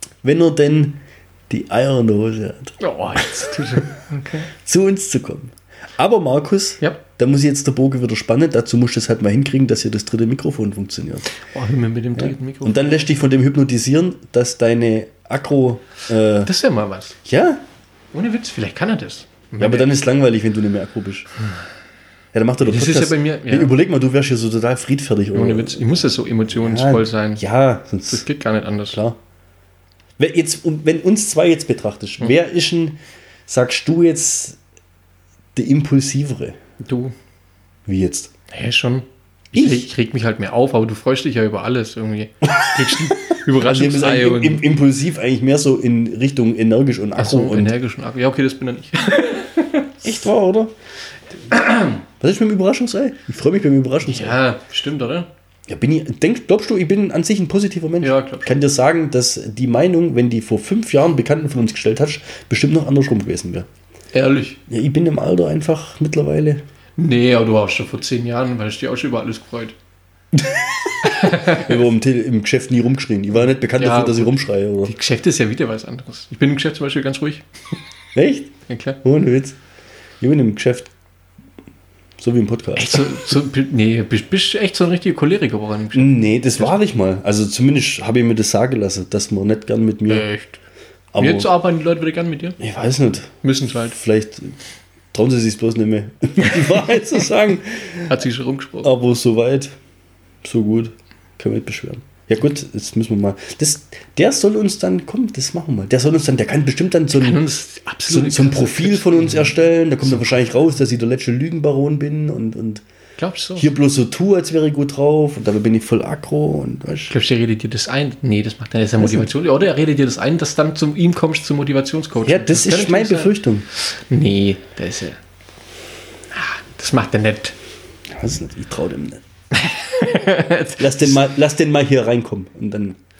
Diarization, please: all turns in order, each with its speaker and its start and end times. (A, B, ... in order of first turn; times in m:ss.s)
0:00.2-0:03.8 A
0:02.8-0:04.5 B
0:04.6-0:11.3 A
0:11.4-0:13.1 B
0:12.2-0:16.5 A
0:16.4-0:17.2 B
0:17.2-0:17.6 A
0:18.1-0:19.9 B
0:19.6-0:21.3 A
0:22.3-0:28.2 A
0:22.6-0:23.8 B
0:25.3-0:27.4 B
0:28.1-0:29.0 B
0:28.9-0:29.2 A
0:30.2-0:34.6 A
0:35.6-0:36.6 A
0:36.8-0:37.1 B
0:37.9-0:38.3 A
0:38.5-0:44.6 B
0:39.5-0:39.8 A
0:42.5-0:47.7 A
0:47.2-0:50.1 B
0:50.0-0:50.7 A
0:51.5-0:52.0 B
0:52.2-0:54.4 A
0:54.0-0:55.3 B
0:55.7-1:03.6 A
0:58.0-0:58.6 B
1:04.1-1:04.6 B
1:04.7-1:06.6 A
1:07.0-1:09.8 B
1:10.3-1:14.9 A
1:11.1-1:11.8 B
1:13.7-1:17.4 B
1:18.1-1:18.5 A
1:18.7-1:19.0 B
1:19.0-1:19.6 A
1:20.2-1:20.9 A
1:22.2-1:23.1 A
1:22.8-1:26.8 B
1:25.9-1:30.2 A
1:30.1-1:30.6 B
1:31.1-1:31.5 A
1:31.2-1:32.6 B
1:32.6-1:34.6 A
1:33.4-1:33.9 B
1:35.1-1:38.2 A
1:38.1-1:38.9 B
1:38.8-1:39.7 A
1:40.4-1:47.4 A
1:47.1-1:50.4 B
1:48.0-1:52.8 A
1:53.2-1:53.7 B
1:53.6-1:57.1 A
1:57.1-2:05.2 B
1:59.0-1:59.3 A
2:02.2-2:03.7 A
2:06.3-2:07.6 B
2:08.1-2:09.2 A
2:09.5-2:11.2 B
2:10.8-2:13.0 A